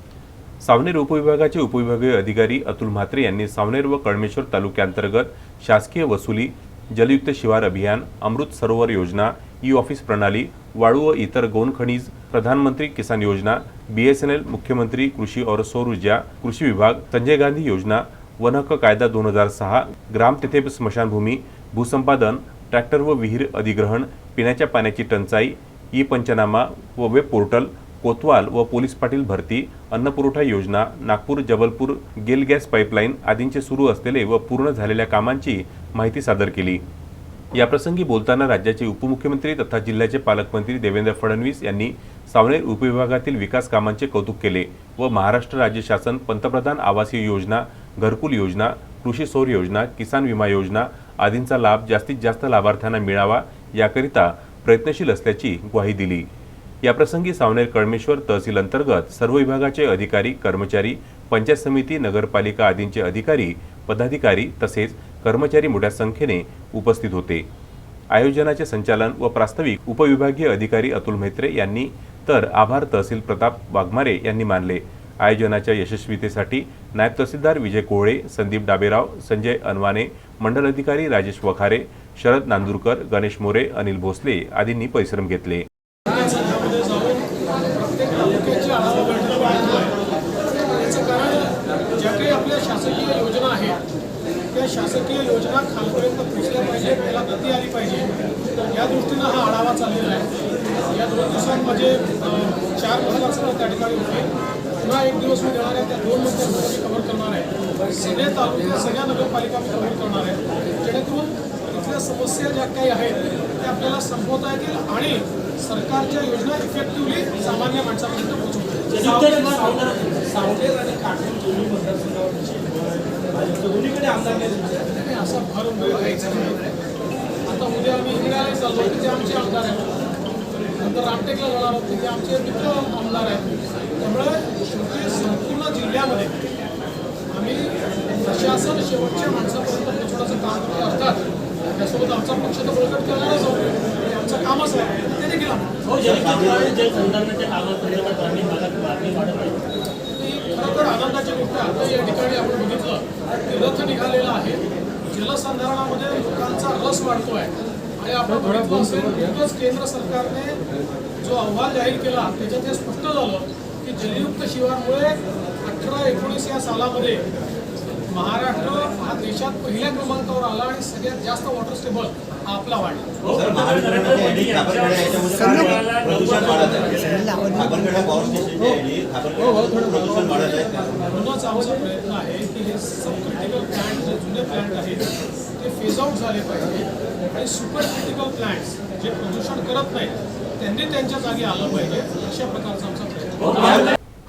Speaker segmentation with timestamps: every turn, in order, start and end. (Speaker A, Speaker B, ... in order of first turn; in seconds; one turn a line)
Speaker A: 0.6-36.8
Speaker A: 37.5-56.3
Speaker A: 56.8-67.5
Speaker A: 68.1-85.7
Speaker B: 86.1-90.0
Speaker B: 90.7-93.8
Speaker B: 94.5-98.1
Speaker B: 98.7-100.3
Speaker B: 100.9-119.8
Speaker C: 118.9-124.9
Speaker B: 125.0-126.7
Speaker B: 127.5-130.0
Speaker B: 130.8-136.5
Speaker B: 137.3-145.8
Speaker C: 145.8-149.8
Speaker D: 146.1-146.6
Speaker B: 150.2-160.6
Speaker B: 161.2-167.2
Speaker B: 168.1-173.2
Speaker C: 173.2-177.3
Speaker D: 173.3-181.1
Speaker B: 181.1-193.9